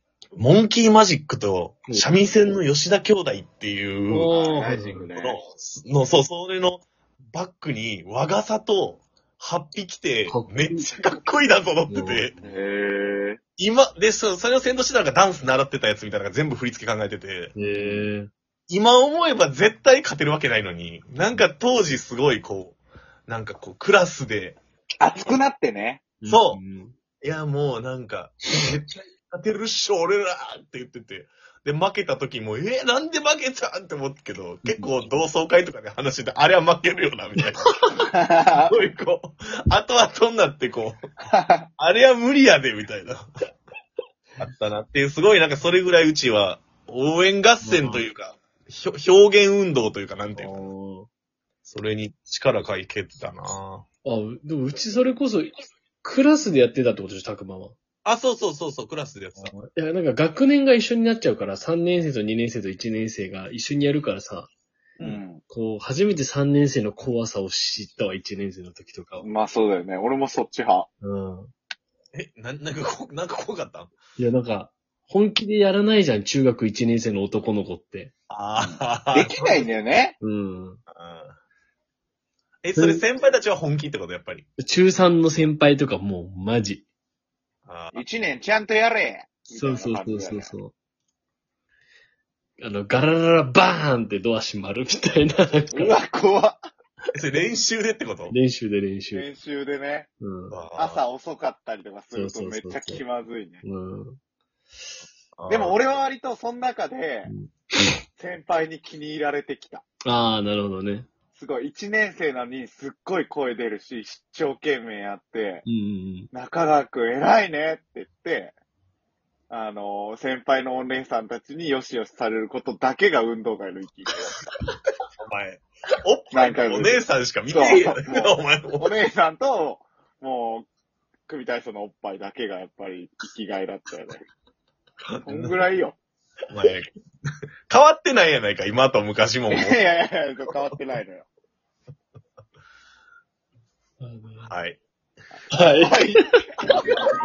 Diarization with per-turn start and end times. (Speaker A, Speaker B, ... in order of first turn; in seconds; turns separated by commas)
Speaker A: 0.4-4.3, Speaker B: 4.1-5.1, Speaker C: 4.3-5.4, Speaker A: 5.1-12.3, Speaker B: 10.3-10.9, Speaker B: 11.9-12.4, Speaker C: 12.4-13.4, Speaker A: 13.6-17.6, Speaker B: 17.5-18.3, Speaker C: 17.6-18.0, Speaker A: 18.7-24.6, Speaker C: 25.0-26.1, Speaker B: 26.2-26.9, Speaker A: 26.2-26.6, Speaker A: 27.2-37.9, Speaker C: 38.1-38.8, Speaker A: 38.6-41.0, Speaker C: 41.2-41.6, Speaker A: 41.8-43.3, Speaker A: 44.4-50.7, Speaker B: 47.6-48.1, Speaker B: 50.4-51.1, Speaker A: 51.6-53.8, Speaker B: 54.0-55.5, Speaker B: 56.0-57.8, Speaker A: 58.0-59.5, Speaker B: 59.4-64.5, Speaker C: 65.0-65.4, Speaker B: 65.0-69.3, Speaker C: 69.2-70.9, Speaker B: 71.0-71.5, Speaker A: 72.1-73.9, Speaker B: 74.2-78.1, Speaker A: 78.3-79.6, Speaker C: 78.6-80.2, Speaker B: 80.2-80.8, Speaker A: 80.9-81.4, Speaker A: 82.6-84.5, Speaker B: 82.8-83.0, Speaker B: 84.6-86.8, Speaker A: 87.7-88.0, Speaker C: 87.9-90.5, Speaker B: 89.5-90.7, Speaker B: 92.6-96.0, Speaker C: 95.7-96.6, Speaker A: 97.1-98.3, Speaker B: 98.3-99.3, Speaker C: 99.1-100.1, Speaker B: 100.2-100.6, Speaker A: 100.5-101.0, Speaker C: 100.8-103.6, Speaker B: 102.1-103.0, Speaker B: 103.6-104.2, Speaker A: 105.3-105.8, Speaker C: 105.5-107.3, Speaker B: 107.3-107.9, Speaker C: 108.2-109.8, Speaker B: 110.0-111.1, Speaker C: 111.3-115.6, Speaker B: 115.6-116.3, Speaker C: 116.3-118.5, Speaker C: 119.5-124.5, Speaker A: 125.2-128.9, Speaker C: 126.3-130.7, Speaker C: 131.3-134.2, Speaker A: 135.0-135.5, Speaker C: 135.2-136.0, Speaker A: 136.5-136.9, Speaker A: 137.7-139.8, Speaker C: 139.5-141.3, Speaker B: 144.0-144.5, Speaker A: 144.5-144.8, Speaker B: 145.5-146.2, Speaker C: 145.5-146.7